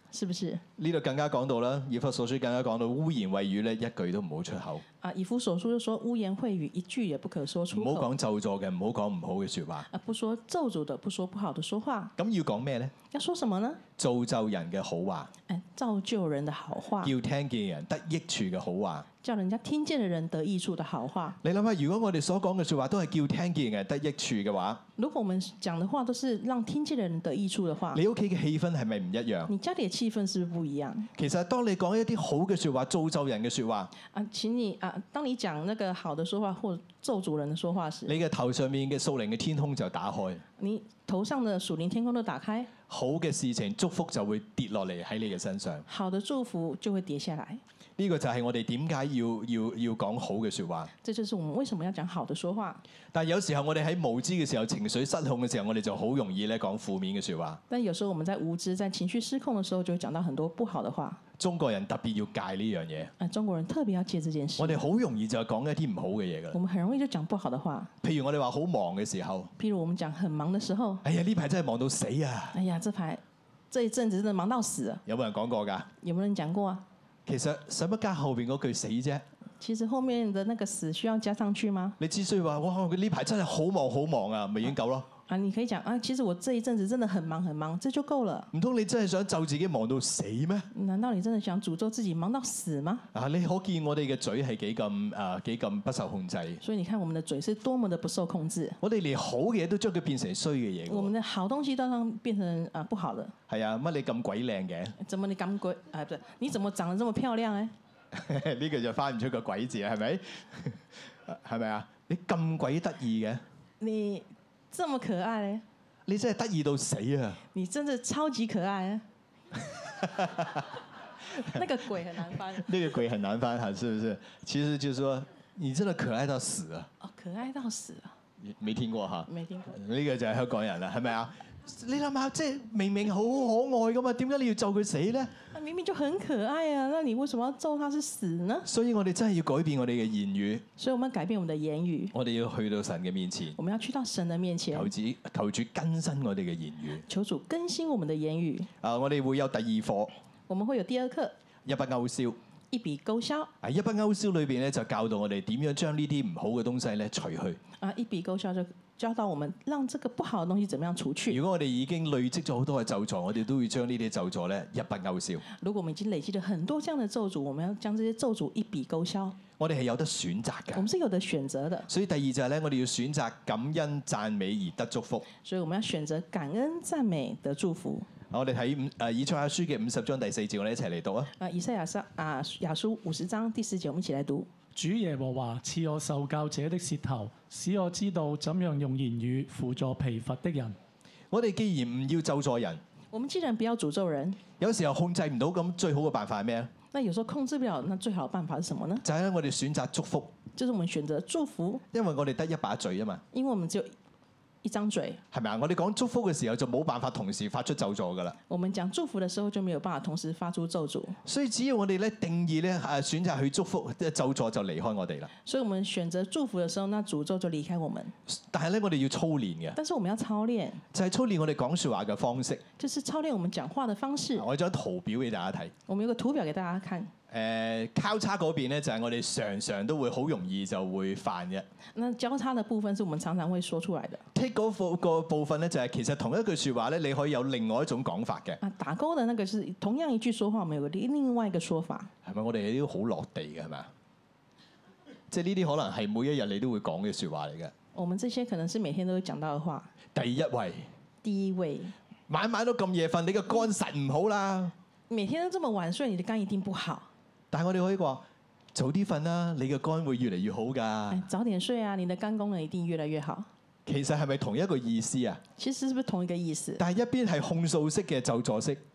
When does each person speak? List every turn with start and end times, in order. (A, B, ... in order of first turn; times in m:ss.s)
0:00.1-0:00.6 A
0:00.8-0:04.8 B
0:05.0-0:08.1 A
0:07.7-0:09.9 B
0:09.9-0:12.1 A
0:12.2-0:12.9 B
0:13.0-0:13.8 A
0:14.0-0:15.3 B
0:15.5-0:17.1 A
0:17.0-0:19.1 B
0:19.2-0:21.4 A
0:21.4-0:24.8 B
0:25.0-0:28.0 A
0:27.9-0:29.5 B
0:29.5-0:31.1 A
0:31.2-0:33.9 B
0:34.1-0:38.2 A
0:38.1-0:40.4 B
0:40.6-0:42.7 A
0:42.9-0:45.8 B
0:45.9-0:47.6 A
0:48.0-0:50.9 B
0:51.0-0:52.8 A
0:53.1-0:57.6 B
0:57.7-1:01.2 A
1:01.4-1:03.1 B
1:03.2-1:04.8 A
1:04.6-1:06.6 B
1:06.5-1:07.9 A
1:08.0-1:09.5 B
1:09.6-1:11.0 A
1:11.0-1:12.6 B
1:12.5-1:15.0 A
1:15.0-1:15.9 B
1:16.0-1:16.8 A
1:17.2-1:19.2 B
1:19.6-1:22.0 A
1:22.0-1:25.1 B
1:25.3-1:28.5 A
1:28.5-1:30.7 B
1:30.7-1:33.1 A
1:33.1-1:36.6 B
1:36.6-1:38.8 A
1:38.8-1:41.1 B
1:40.9-1:43.3 A
1:43.5-1:44.9 B
1:45.0-1:47.7 A
1:48.1-1:53.4 B
1:53.8-1:55.6 A
1:56.0-1:57.4 B
1:57.5-1:59.0 A
1:59.7-2:00.7 B
2:01.3-2:02.7 A
2:02.5-2:06.9 B
2:07.0-2:08.1 A
2:08.4-2:15.3 B
2:09.3-2:09.7 A
2:15.5-2:18.7 A
2:18.6-2:20.6 B
2:20.8-2:22.1 A
2:22.1-2:23.6 B
2:23.6-2:24.9 A
2:24.7-2:27.0 B
2:27.1-2:28.7 A
2:28.8-2:30.1 B
2:30.5-2:31.3 A
2:31.6-2:32.4 B
2:32.7-2:33.5 A
2:33.6-2:37.6 B
2:37.8-2:41.4 A
2:41.3-2:45.4 B
2:45.6-2:49.4 A
2:49.6-2:50.9 B
2:50.7-2:51.9 A
2:51.9-2:55.3 B
2:55.4-2:58.1 A
2:58.3-3:01.3 B
3:01.4-3:04.5 A
3:04.7-3:10.8 C
3:11.3-3:12.8 B
3:13.1-3:14.4 A
3:14.6-3:16.7 B
3:16.9-3:19.0 A
3:19.0-3:20.4 B
3:20.5-3:21.8 A
3:21.9-3:23.2 B
3:23.3-3:23.9 A
3:24.6-3:25.2 A
3:25.3-3:28.4 B
3:28.5-3:31.2 A
3:31.2-3:35.3 B
3:35.4-3:38.1 A
3:38.3-3:39.8 B
3:39.7-3:40.8 A
3:40.9-3:42.6 B
3:42.8-3:44.5 A
3:44.4-3:45.7 B
3:45.9-3:47.1 A
3:47.3-3:51.7 B
3:51.9-3:54.2 A
3:54.3-3:58.6 B
3:58.6-4:02.1 A
4:02.2-4:03.9 B
4:05.3-4:07.7 B
4:07.9-4:09.9 A
4:10.1-4:10.9 B
4:11.2-4:11.9 A
4:12.3-4:14.7 B
4:15.1-4:17.1 A
4:17.5-4:21.2 B
4:21.1-4:23.5 A
4:23.8-4:25.4 B
4:25.6-4:26.8 A
4:26.8-4:28.8 B